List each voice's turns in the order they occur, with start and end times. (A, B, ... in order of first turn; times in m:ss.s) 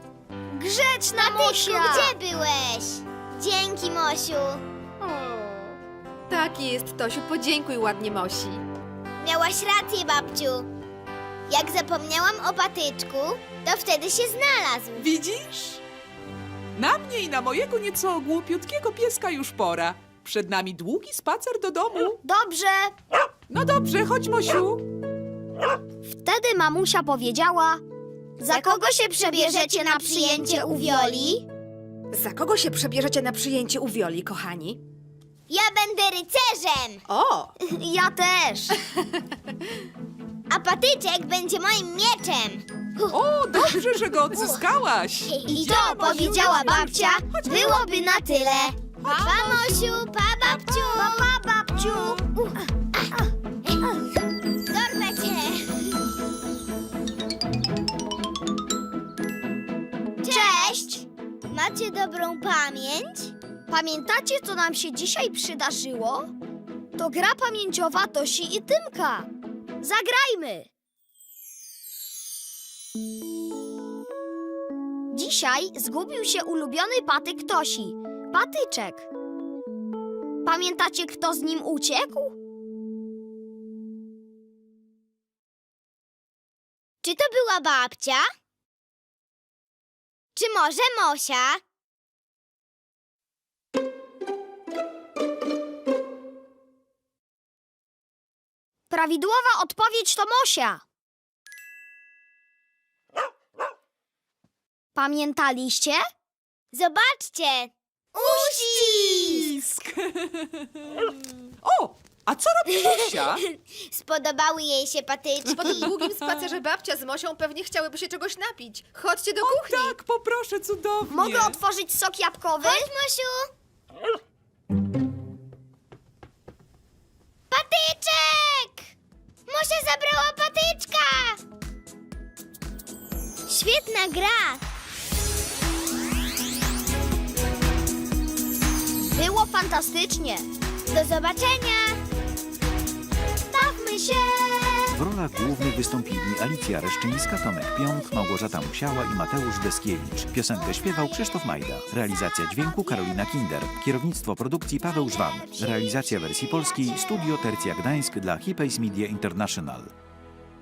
0:00.5-0:02.2 A
0:01.2-0:04.6 B
0:05.0-0:05.8 C
0:06.3-0:08.6 C
0:09.2-0:10.7 B
0:11.5-0:15.1 B
0:15.0-0:15.8 D
0:16.8-0:22.2 D
0:22.2-0:22.9 A
0:23.5-0:24.8 D
0:26.0-0:27.8 A
0:28.4-0:31.3 A
0:28.5-0:31.4 B
0:32.1-0:34.8 C
0:35.5-0:37.0 B
0:37.1-0:37.5 C
0:37.6-0:38.8 A
0:40.5-0:43.8 B
0:43.1-0:47.9 D
0:44.3-0:44.6 B
0:45.3-0:51.3 B
0:45.5-0:48.3 A
0:49.0-0:49.8 D
0:49.0-0:49.4 A
0:50.5-0:50.9 D
0:50.9-0:52.4 A
0:52.3-0:54.0 B
0:54.7-0:56.0 B
1:00.2-1:03.4 B
1:00.3-1:01.0 A
1:03.7-1:06.3 A
1:07.0-1:09.3 A
1:09.8-1:10.7 A
1:15.1-1:19.1 A
1:20.4-1:22.4 A
1:27.0-1:28.3 B
1:30.4-1:31.6 B
1:38.9-1:40.8 A
1:45.0-1:46.0 A
1:46.7-1:49.5 B
1:48.3-1:53.5 D
1:52.7-1:56.0 B
1:55.5-2:00.0 C
1:55.7-1:56.5 D
1:59.4-2:01.6 D
2:01.1-2:02.9 A
2:02.6-2:03.5 B
2:07.5-2:08.9 B
2:09.5-2:11.4 B
2:13.5-2:14.6 B
2:19.0-2:20.5 A
2:20.9-2:22.0 B
2:23.5-2:25.0 A
2:24.9-2:39.9 E
2:30.8-2:31.2 A
2:35.4-2:36.5 A